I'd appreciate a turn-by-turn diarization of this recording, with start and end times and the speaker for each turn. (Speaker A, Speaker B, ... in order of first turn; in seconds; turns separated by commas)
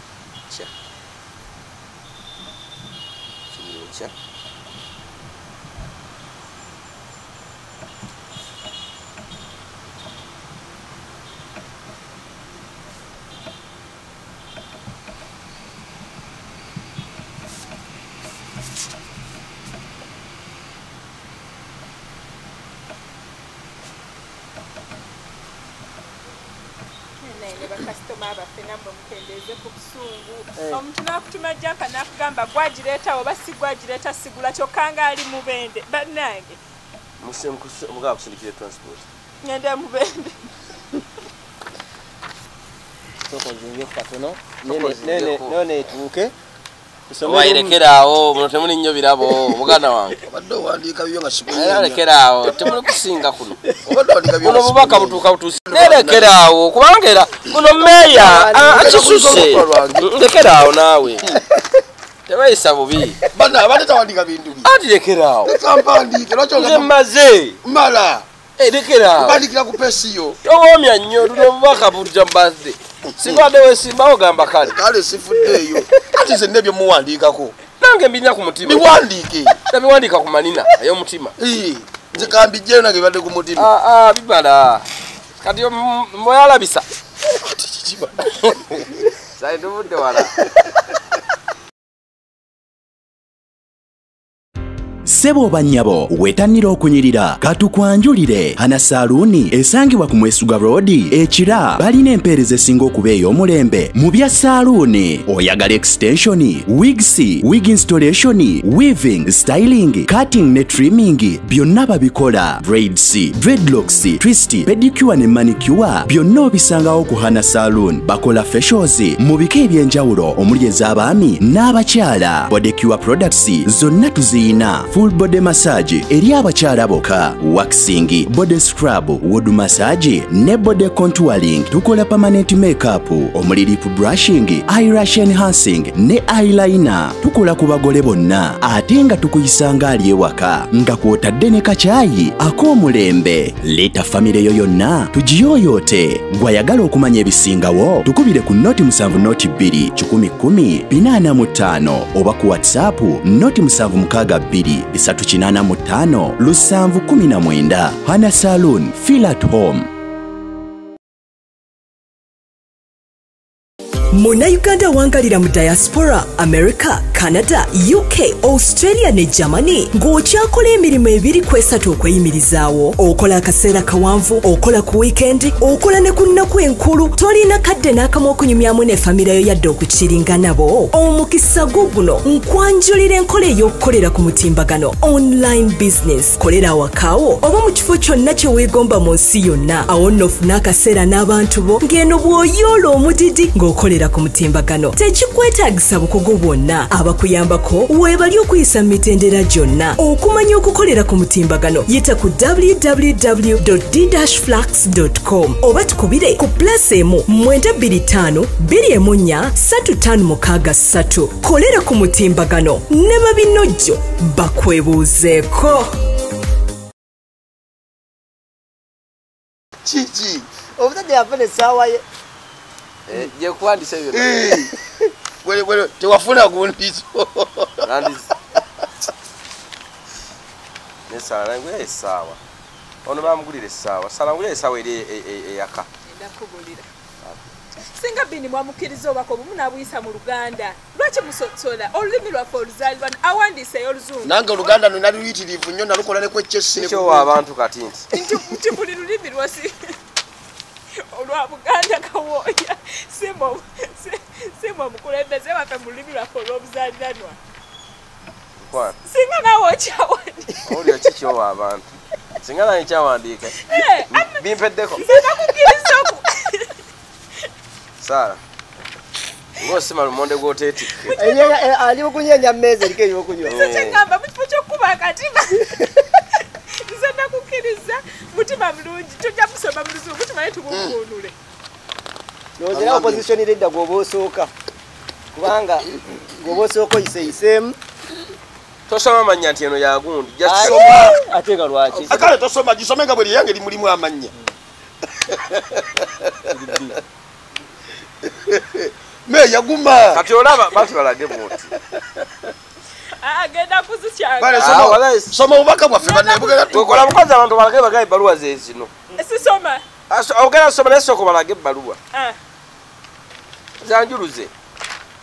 Speaker A: 3.5-4.1, Speaker B: 27.2-36.6, Speaker C: 30.6-30.8, Speaker A: 37.2-39.0, Speaker B: 39.4-40.5, Speaker C: 43.3-46.3, Speaker A: 44.6-45.5, Speaker C: 47.1-47.8, Speaker A: 47.2-50.2, Speaker D: 50.3-52.0, Speaker A: 51.5-53.6, Speaker D: 53.8-56.3, Speaker A: 54.4-61.3, Speaker C: 58.2-58.8, Speaker D: 58.4-60.1, Speaker A: 62.3-63.2, Speaker D: 63.3-64.7, Speaker A: 64.6-65.5, Speaker D: 65.5-66.9, Speaker A: 66.5-67.6, Speaker D: 67.6-68.3, Speaker A: 68.6-69.4, Speaker D: 69.2-70.4, Speaker A: 70.5-74.8, Speaker D: 73.2-73.5, Speaker D: 74.7-77.5, Speaker A: 77.8-78.9, Speaker D: 78.6-79.6, Speaker A: 79.7-81.3, Speaker D: 81.4-83.7, Speaker A: 83.6-84.8, Speaker A: 85.4-86.9, Speaker D: 87.3-88.8, Speaker A: 88.4-88.8, Speaker A: 89.4-90.4, Speaker E: 95.0-159.9, Speaker F: 164.2-215.9, Speaker D: 219.8-220.5, Speaker C: 220.8-222.0, Speaker A: 223.1-224.5, Speaker D: 224.1-224.7, Speaker D: 225.4-227.9, Speaker A: 227.8-228.3, Speaker A: 231.1-232.4, Speaker A: 233.1-235.9, Speaker B: 236.1-236.9, Speaker B: 237.8-244.8, Speaker D: 244.2-247.3, Speaker A: 246.8-248.1, Speaker B: 248.1-249.9, Speaker B: 251.0-257.4, Speaker A: 258.6-259.0, Speaker B: 259.1-260.6, Speaker A: 260.6-261.9, Speaker A: 262.4-263.6, Speaker B: 263.7-264.4, Speaker A: 264.1-265.2, Speaker B: 265.0-266.8, Speaker A: 268.0-268.4, Speaker A: 269.6-271.1, Speaker B: 271.0-271.6, Speaker C: 271.2-273.6, Speaker B: 273.4-276.1, Speaker A: 273.5-274.1, Speaker B: 276.7-281.4, Speaker D: 280.7-281.0, Speaker C: 282.6-284.5, Speaker D: 282.7-283.3, Speaker C: 285.4-287.8, Speaker A: 288.9-291.0, Speaker C: 290.4-292.2, Speaker D: 290.6-291.2, Speaker D: 292.0-294.3, Speaker D: 295.1-296.5, Speaker D: 298.2-300.2, Speaker A: 300.1-301.8, Speaker B: 303.2-304.9, Speaker D: 304.4-307.0, Speaker A: 304.6-305.4, Speaker B: 306.0-307.2, Speaker A: 306.7-308.9, Speaker B: 309.2-309.8, Speaker A: 310.1-312.0, Speaker A: 313.8-314.5